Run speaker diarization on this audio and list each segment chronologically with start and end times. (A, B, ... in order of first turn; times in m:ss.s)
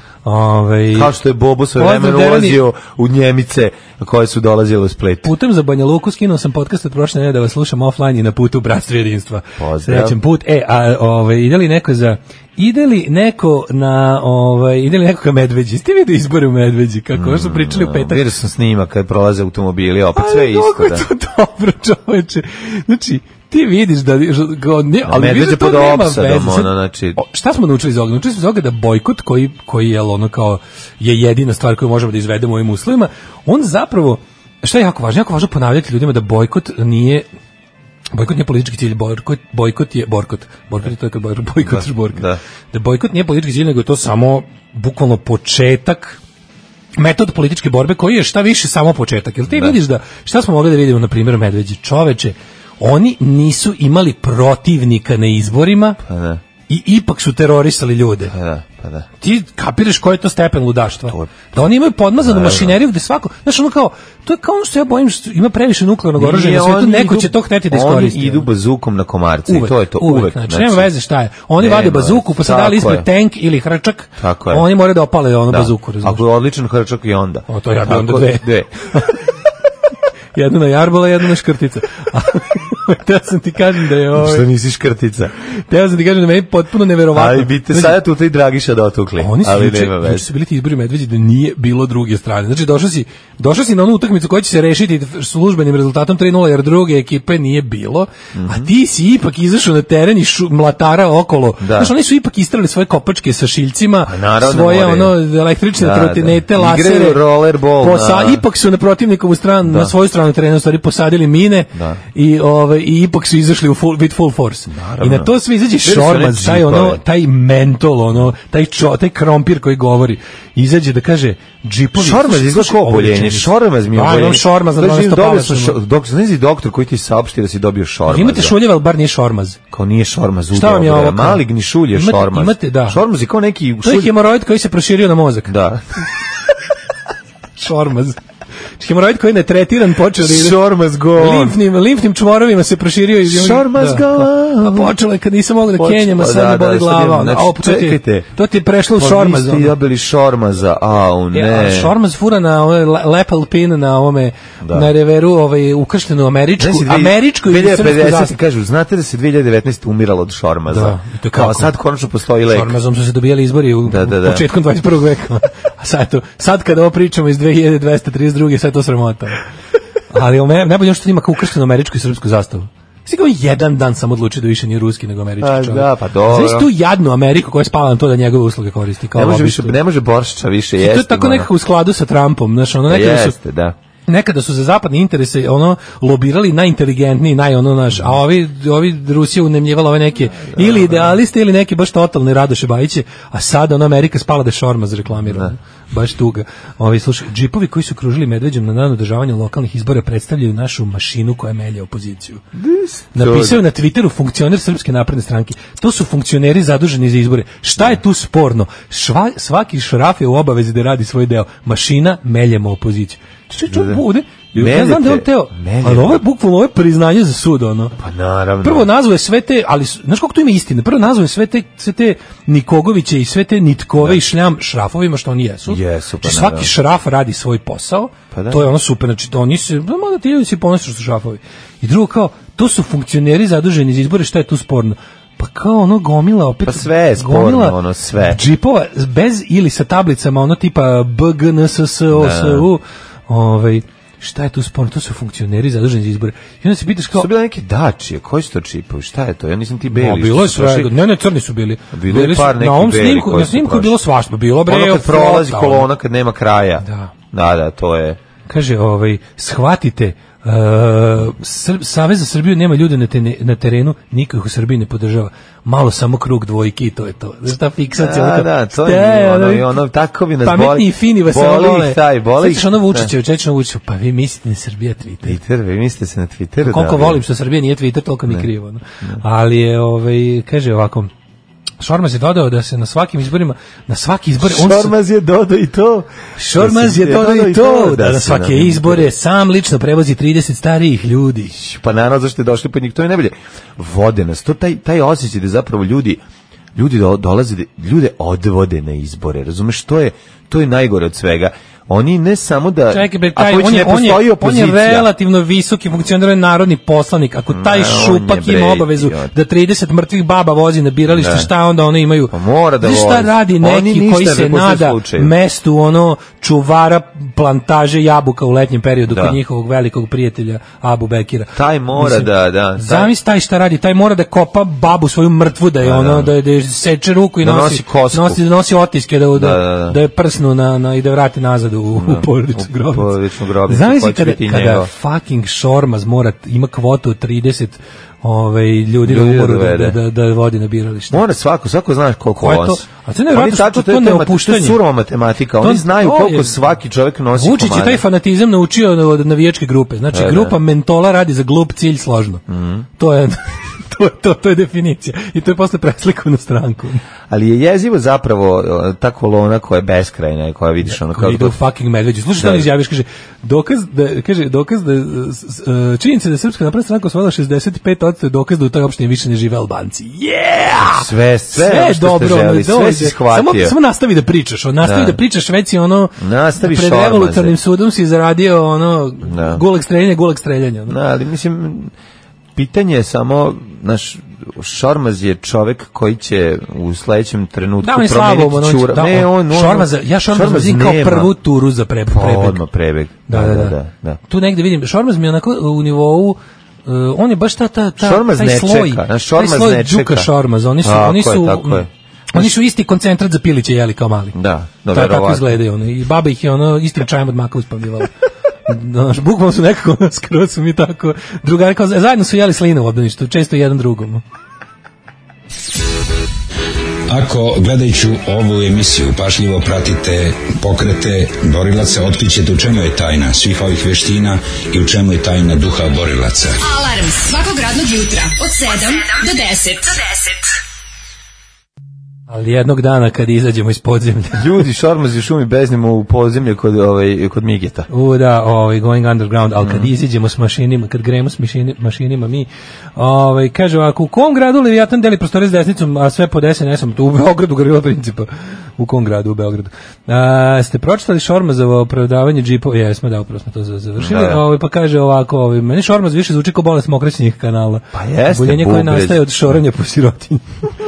0:00.2-0:01.1 A
0:00.9-0:05.3 B
0:01.7-0:02.6 A
0:05.2-0:18.2 A
0:09.6-0:10.2 B
0:17.1-0:21.0 B
0:20.1-0:37.2 A
0:25.0-0:27.2 B
0:38.1-0:46.2 A
0:41.6-0:42.4 B
0:47.0-0:56.0 A
0:49.5-0:49.8 B
0:56.0-0:56.4 B
0:56.7-0:58.3 A
0:58.3-0:59.1 B
0:59.2-1:08.5 A
1:01.0-1:01.7 B
1:02.2-1:02.8 B
1:06.2-1:10.9 B
1:09.5-1:16.2 A
1:11.6-1:13.1 B
1:14.2-1:14.7 B
1:15.5-1:19.1 B
1:17.5-1:19.2 A
1:20.3-1:24.4 A
1:24.1-1:25.3 B
1:25.7-1:28.0 A
1:27.1-1:30.3 B
1:29.2-1:47.2 A
1:38.3-1:38.7 B
1:41.6-1:41.9 B
1:44.0-1:45.2 B
1:45.8-1:48.4 B
1:47.8-2:05.8 A
1:49.6-1:49.9 B
1:51.7-1:52.0 B
1:54.7-1:57.0 B
2:02.0-2:08.6 B
2:08.1-2:09.6 A
2:09.7-2:14.1 B
2:10.5-2:13.0 A
2:13.8-2:15.5 A
2:15.5-2:15.8 B
2:17.6-2:18.2 A
2:18.8-2:20.6 A
2:20.2-2:21.6 B
2:21.2-2:29.7 A
2:23.2-2:24.9 B
2:25.8-2:28.3 B
2:29.0-2:31.9 B
2:31.3-2:38.4 A
2:34.6-2:34.9 B
2:36.6-2:42.8 B
2:40.7-2:41.7 A
2:42.5-2:49.4 A
2:43.8-2:44.4 B
2:50.1-2:59.8 A
2:55.4-2:56.7 B
2:59.1-3:01.5 B
3:00.8-3:03.4 A
3:02.9-3:03.8 B
3:04.1-3:22.4 A
3:10.4-3:11.2 B
3:15.2-3:15.5 B
3:22.5-3:23.6 B
3:23.1-3:38.0 A
3:33.6-3:34.0 B
3:34.5-3:36.2 B
3:38.0-3:38.9 B
3:38.6-4:07.3 A
3:45.7-3:46.7 B
3:48.3-3:48.7 B
3:56.6-3:58.4 B
4:02.1-4:02.7 B
4:07.1-4:10.9 B
4:09.9-4:15.9 A
4:11.9-4:14.0 B
4:14.7-4:18.2 B
4:16.8-4:17.1 A
4:18.5-4:29.7 A
4:28.0-4:33.1 B
4:30.4-4:35.4 A
4:35.2-4:37.2 B
4:36.6-4:41.1 A
4:41.8-4:44.9 A
4:44.4-4:49.1 B
4:46.4-4:51.5 A
4:51.5-4:56.2 B
4:56.7-5:05.1 B
5:02.9-5:33.1 A
5:07.5-5:09.3 B
5:11.1-5:11.5 B
5:12.3-5:15.3 B
5:19.1-5:19.4 B
5:21.5-5:23.1 B
5:25.8-5:26.3 B
5:27.4-5:28.4 B
5:29.3-5:30.0 B
5:31.9-5:34.9 B
5:33.7-5:41.2 A
5:39.0-5:40.0 B
5:41.1-5:48.0 B
5:42.4-5:44.8 A
5:45.6-5:46.5 A
5:47.3-5:52.4 A
5:50.1-5:50.5 B
5:52.5-5:52.8 B
5:53.0-5:57.0 A
5:57.3-6:01.6 B
6:00.9-6:21.0 A
6:02.4-6:02.7 B
6:10.8-6:13.8 B
6:14.8-6:15.2 B
6:16.2-6:17.6 B
6:19.2-6:19.6 B
6:20.9-6:21.9 B
6:22.5-6:31.3 B
6:27.8-6:32.6 A
6:32.1-6:34.2 B
6:33.3-6:33.8 A
6:34.3-6:44.4 A
6:38.0-6:42.5 B
6:44.3-6:45.6 B
6:44.9-6:48.1 A
6:48.7-6:54.2 A
6:57.1-7:06.6 C
7:06.6-7:10.4 D
7:12.3-7:14.4 A
7:14.3-7:17.9 B
7:17.9-7:40.4 A
7:19.6-7:19.9 B
7:34.0-7:34.4 B
7:37.9-7:39.2 B